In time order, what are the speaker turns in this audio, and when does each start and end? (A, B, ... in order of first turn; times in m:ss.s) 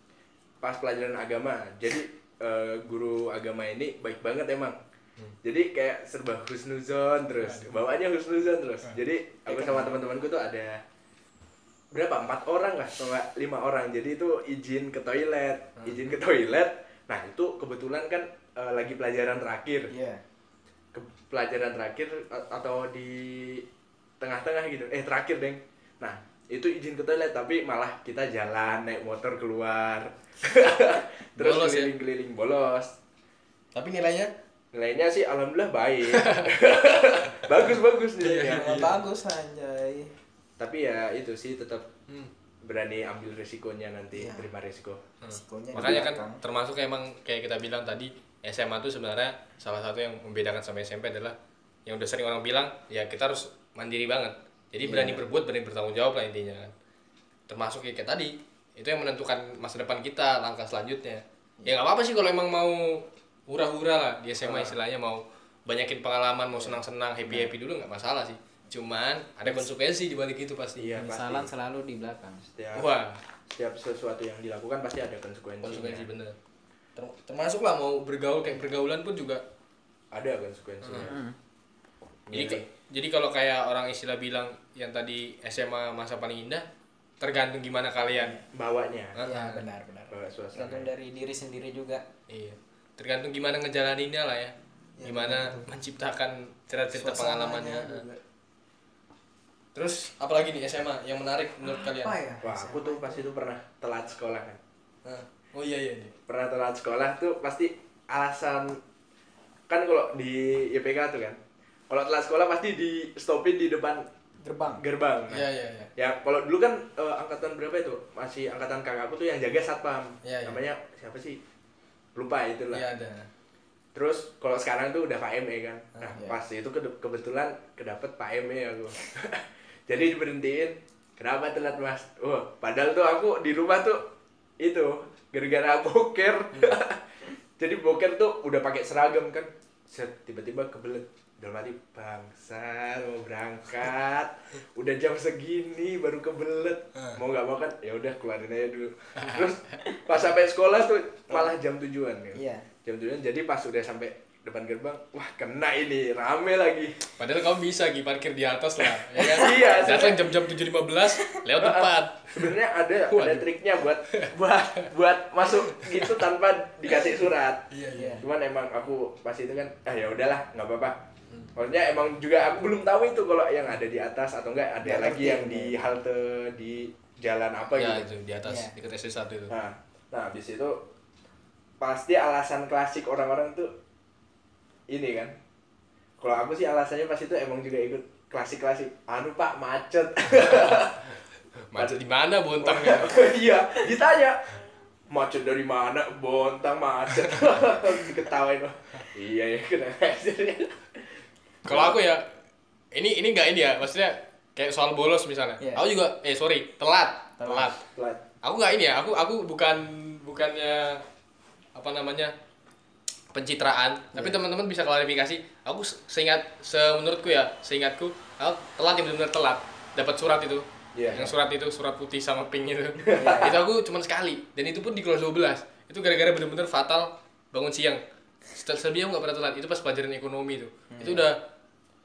0:00.6-0:04.8 A
0:05.4-0:10.8 A
0:07.4-0:07.8 B
0:09.4-0:10.0 C
0:11.9-0:19.9 A
0:19.9-0:20.2 C
0:20.9-0:23.6 A
0:24.2-0:33.0 A
0:31.4-0:32.0 B
0:33.8-0:34.3 B
0:34.7-0:38.8 A
0:36.1-0:36.5 B
0:37.4-0:39.0 B
0:38.3-0:40.1 C
0:40.6-0:41.9 A
0:42.6-0:45.0 A
0:44.1-0:44.5 C
0:45.2-0:56.7 B
0:45.3-0:46.4 C
0:54.8-0:55.2 C
0:57.5-1:10.9 B
1:04.4-1:04.8 A
1:06.5-1:07.5 C
1:10.8-1:11.5 A
1:10.9-1:12.4 C
1:12.5-1:12.9 A
1:12.7-1:13.2 B
1:13.5-1:16.1 A
1:15.6-1:16.4 B
1:17.0-1:19.4 B
1:20.1-1:21.2 A
1:20.8-1:21.1 B
1:21.0-1:21.4 C
1:22.3-1:22.6 A
1:22.3-1:26.6 B
1:27.2-1:28.4 B
1:28.2-1:28.4 C
1:28.5-1:29.2 A
1:29.1-1:29.6 B
1:29.2-1:32.0 C
1:30.1-1:30.9 A
1:32.3-1:38.0 B
1:35.0-1:35.7 C
1:36.9-1:38.2 C
1:39.7-1:42.2 B
1:41.6-1:43.3 C
1:42.4-1:44.6 A
1:45.0-1:46.1 B
1:46.3-1:48.8 A
1:49.7-1:51.4 A
1:51.9-1:54.1 A
1:54.4-1:54.8 C
1:54.8-2:01.4 A
1:55.3-1:55.9 B
2:00.2-2:00.6 B
2:02.1-2:02.9 A
2:02.7-2:03.3 B
2:03.9-2:14.0 A
2:14.6-2:17.0 A
2:17.6-2:37.1 A
2:29.2-2:29.4 B
2:32.3-2:32.7 C
2:37.2-2:42.5 B
2:39.2-2:40.1 C
2:39.2-2:40.4 A
2:41.6-2:47.7 A
2:43.1-2:43.5 B
2:45.5-2:46.2 B
2:47.7-2:48.2 B
2:47.9-2:48.2 C
2:48.2-2:51.0 A
2:51.5-2:58.1 A
2:54.8-2:55.8 C
2:57.8-2:59.5 B
2:58.4-2:58.7 C
2:59.5-3:00.9 A
3:01.8-3:03.7 A
3:04.9-3:05.4 A
3:06.2-3:11.1 A
3:10.4-3:10.8 B
3:11.7-3:13.2 B
3:11.7-3:12.0 A
3:12.6-3:14.5 A
3:15.1-3:21.0 A
3:21.6-3:22.0 A
3:21.6-3:22.3 B
3:22.9-3:27.8 B
3:27.4-3:27.7 C
3:27.9-3:28.2 A
3:28.4-3:31.0 B
3:31.7-3:32.3 B
3:33.3-3:48.0 B
3:40.9-3:41.3 A
3:43.0-3:43.6 A
3:43.1-3:43.6 C
3:48.5-3:51.4 B
3:50.9-3:51.3 C